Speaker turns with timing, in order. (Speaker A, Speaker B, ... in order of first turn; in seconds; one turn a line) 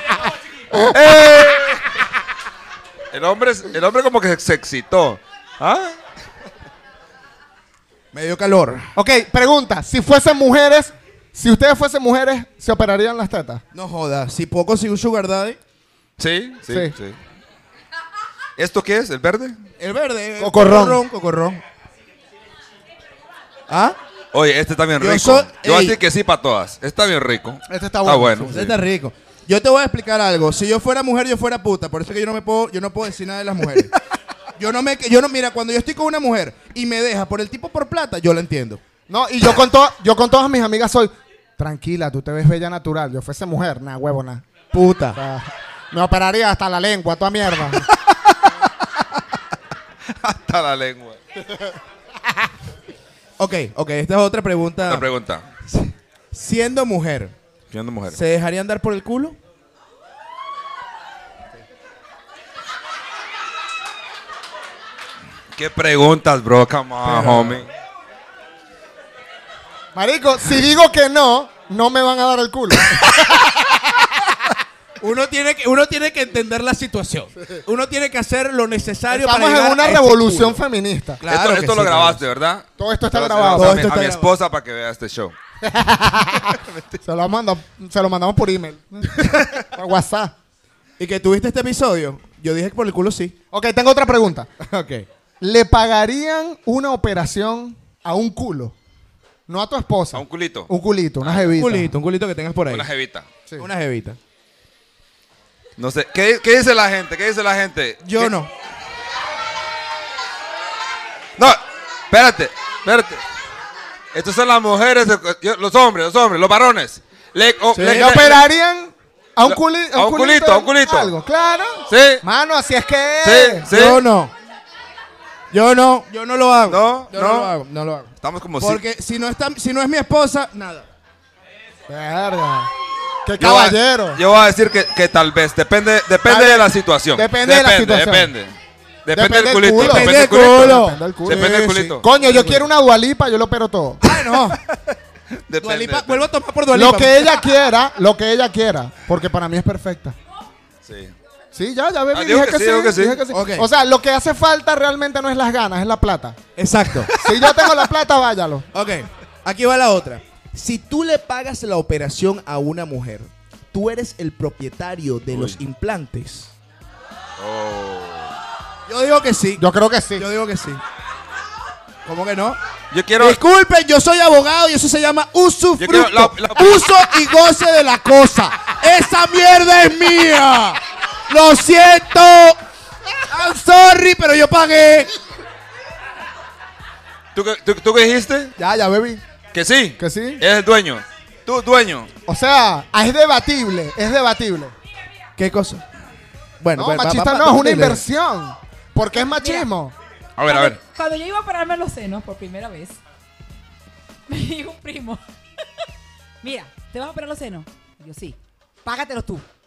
Speaker A: 0.7-1.9
Speaker A: 3.1-6.0
Speaker B: 8.1-8.9
Speaker C: 8.9-13.6
Speaker B: 13.7-15.6
Speaker A: 16.2-17.2
Speaker C: 16.7-16.9
Speaker A: 18.6-19.6
Speaker B: 19.8-21.6
Speaker C: 20.4-21.0
Speaker B: 23.7-23.9
Speaker A: 24.3-28.7
Speaker B: 25.0-26.0
Speaker C: 27.7-28.8
Speaker B: 28.4-33.9
Speaker B: 34.6-38.8
Speaker C: 39.1-44.4
Speaker B: 44.7-45.2
Speaker C: 45.1-47.8
Speaker A: 50.1-51.2
Speaker B: 53.4-55.1
Speaker A: 54.9-55.5
Speaker B: 55.7-57.3
Speaker A: 57.7-58.2
Speaker B: 58.1-59.4
Speaker A: 65.5-67.7
Speaker B: 67.0-67.7
Speaker C: 69.9-74.2
Speaker B: 75.0-80.6
Speaker C: 79.1-81.2
Speaker B: 81.2-82.2
Speaker A: 81.3-85.3
Speaker C: 82.8-83.9
Speaker B: 83.5-84.3
Speaker C: 85.6-86.5
Speaker A: 86.4-87.0
Speaker C: 87.0-90.3
Speaker B: 91.0-93.3
Speaker C: 93.5-94.5
Speaker B: 94.6-95.0
Speaker C: 95.4-98.7
Speaker C: 99.5-101.9
Speaker A: 100.1-100.7
Speaker A: 101.2-101.5
Speaker B: 101.5-102.9
Speaker A: 102.7-103.3
Speaker B: 103.6-104.2
Speaker A: 105.8-108.3
Speaker B: 108.0-108.5
Speaker A: 111.4-113.2
Speaker A: 114.1-118.4
Speaker B: 117.8-118.2
Speaker C: 117.8-123.7
Speaker A: 119.5-121.1
Speaker A: 121.9-122.2
Speaker A: 123.2-124.0
Speaker B: 123.7-124.3
Speaker B: 125.5-130.8
Speaker A: 126.7-127.5
Speaker A: 128.2-128.8
Speaker C: 131.9-132.7
Speaker C: 133.2-134.2
Speaker A: 133.4-142.4
Speaker C: 136.2-138.3
Speaker C: 139.1-144.0
Speaker B: 139.7-142.6
Speaker B: 144.0-144.6
Speaker A: 144.6-144.9
Speaker A: 145.5-146.3
Speaker B: 145.6-147.4
Speaker C: 146.7-150.2
Speaker A: 150.8-151.1
Speaker C: 151.5-156.4
Speaker A: 152.1-153.2
Speaker B: 153.3-153.7
Speaker B: 156.6-157.1
Speaker C: 157.1-158.7
Speaker A: 157.4-157.7
Speaker B: 158.7-166.5
Speaker A: 165.3-165.6
Speaker A: 167.4-168.3
Speaker B: 168.9-169.6
Speaker C: 169.6-170.3
Speaker B: 170.2-170.8
Speaker B: 172.0-172.6
Speaker A: 172.9-173.4
Speaker B: 173.2-182.6
Speaker A: 175.8-176.9
Speaker B: 183.3-185.1
Speaker A: 187.3-188.5
Speaker C: 188.6-189.2
Speaker A: 189.5-192.1
Speaker C: 190.0-190.4
Speaker C: 192.3-194.7
Speaker B: 195.4-195.8
Speaker B: 196.6-198.0
Speaker C: 196.7-199.9
Speaker D: 199.3-199.7
Speaker A: 200.4-200.8
Speaker D: 200.5-203.0
Speaker D: 204.3-205.2
Speaker D: 206.4-209.4